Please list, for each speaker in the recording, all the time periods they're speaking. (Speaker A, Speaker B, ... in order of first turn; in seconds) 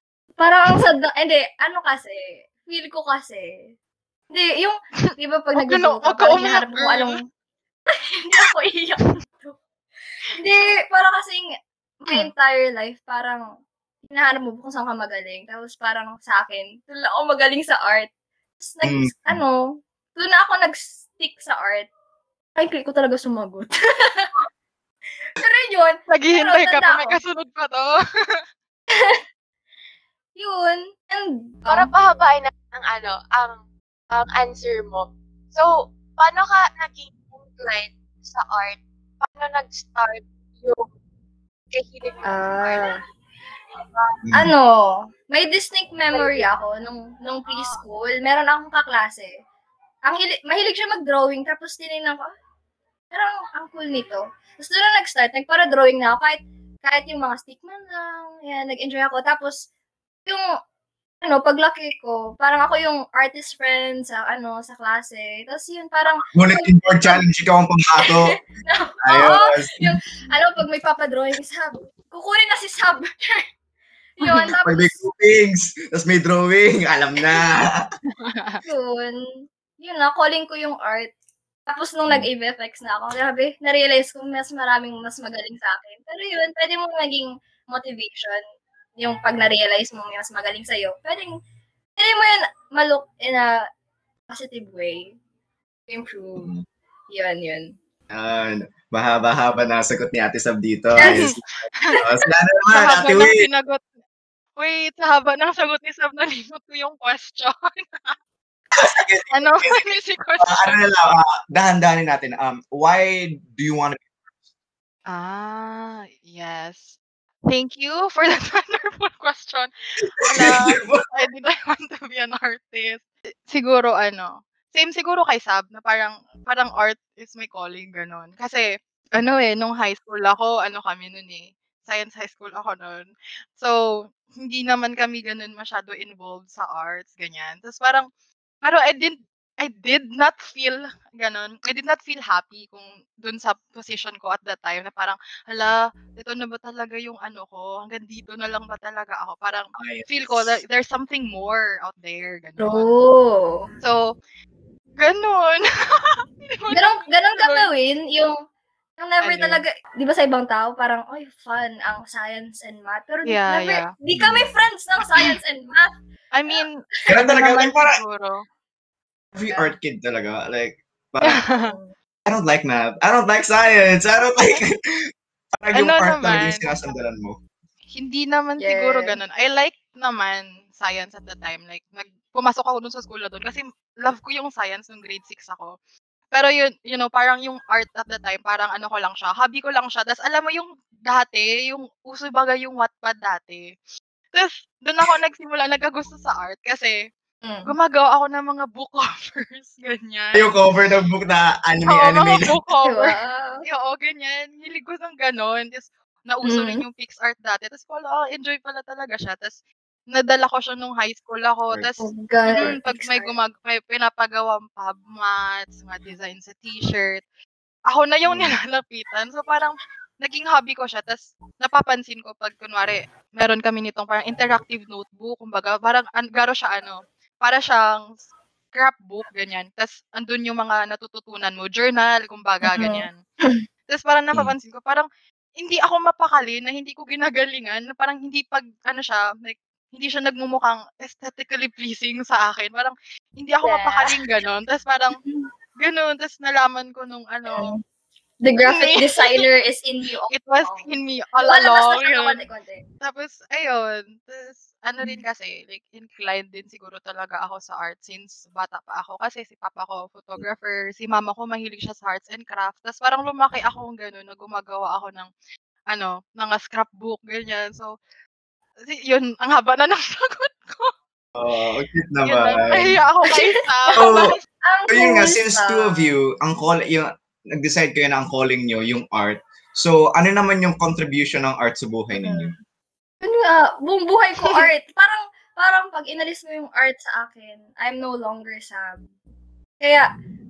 Speaker A: 0.4-3.7, 4.3-7.2, 7.9-9.6, 10.3-13.4, 14.1-18.1, 18.6-21.9, 22.6-24.4, 25.4-27.2, 28.9-29.2, 30.4-31.9, 42.2-43.0, 44.3-49.3, 50.1-52.3, 53.1-59.6, 61.2-67.2, 68.0-73.5, 74.2-75.0, 78.6-81.1, 81.7-88.4, 89.0-91.3, 92.0-93.7, 94.3-95.1, 95.9-96.5, 97.1-97.7, 101.0-101.3, 152.6-153.7, 156.7-158.3, 159.0-165.9, 171.5-171.9, 178.6-179.2, 197.4-197.7, 202.8-203.6, 206.4-206.8, 212.0-213.4, 232.7-233.6, 245.1-245.5, 247.5-247.8, 248.4-252.8, 273.3-276.1, 282.1-282.6, 283.2-289.0, 289.8-290.1
Speaker B: 5.1-7.1, 26.1-28.4, 74.2-74.5, 78.2-78.6, 101.0-101.3, 102.7-103.8, 104.6-108.1, 109.3-110.8, 115.1-117.0, 117.5-119.7, 120.2-133.8, 134.4-138.1, 138.6-152.9, 153.8-154.1, 155.0-157.7, 159.2-159.6, 163.2-163.9, 166.3-168.4, 171.2-171.7, 175.7-176.6, 177.9-185.8, 186.3-193.7, 194.3-197.0, 197.7-200.5, 201.9-209.6, 210.1-217.2, 217.9-228.1, 228.7-233.2, 233.9-235.1, 235.6-245.2, 245.8-247.7, 248.6-249.5, 250.3-252.4, 253.0-265.3, 265.9-267.9, 268.9-270.9, 272.2-274.4, 284.4-284.7
Speaker C: 18.8-19.4, 44.2-44.5, 66.3-68.4, 69.0-70.0, 74.6-77.8, 98.1-103.5, 108.7-109.8, 110.4-114.0, 120.3-121.1, 149.8-150.6, 164.1-164.5, 167.1-168.0, 169.3-171.4, 172.3-177.4, 200.3-202.6, 218.2-218.6, 271.4-273.0, 273.9-274.3, 274.9-282.5
Speaker D: 31.7-40.9, 41.7-43.0, 43.8-44.2, 46.1-46.5, 47.5-47.8, 243.6-244.0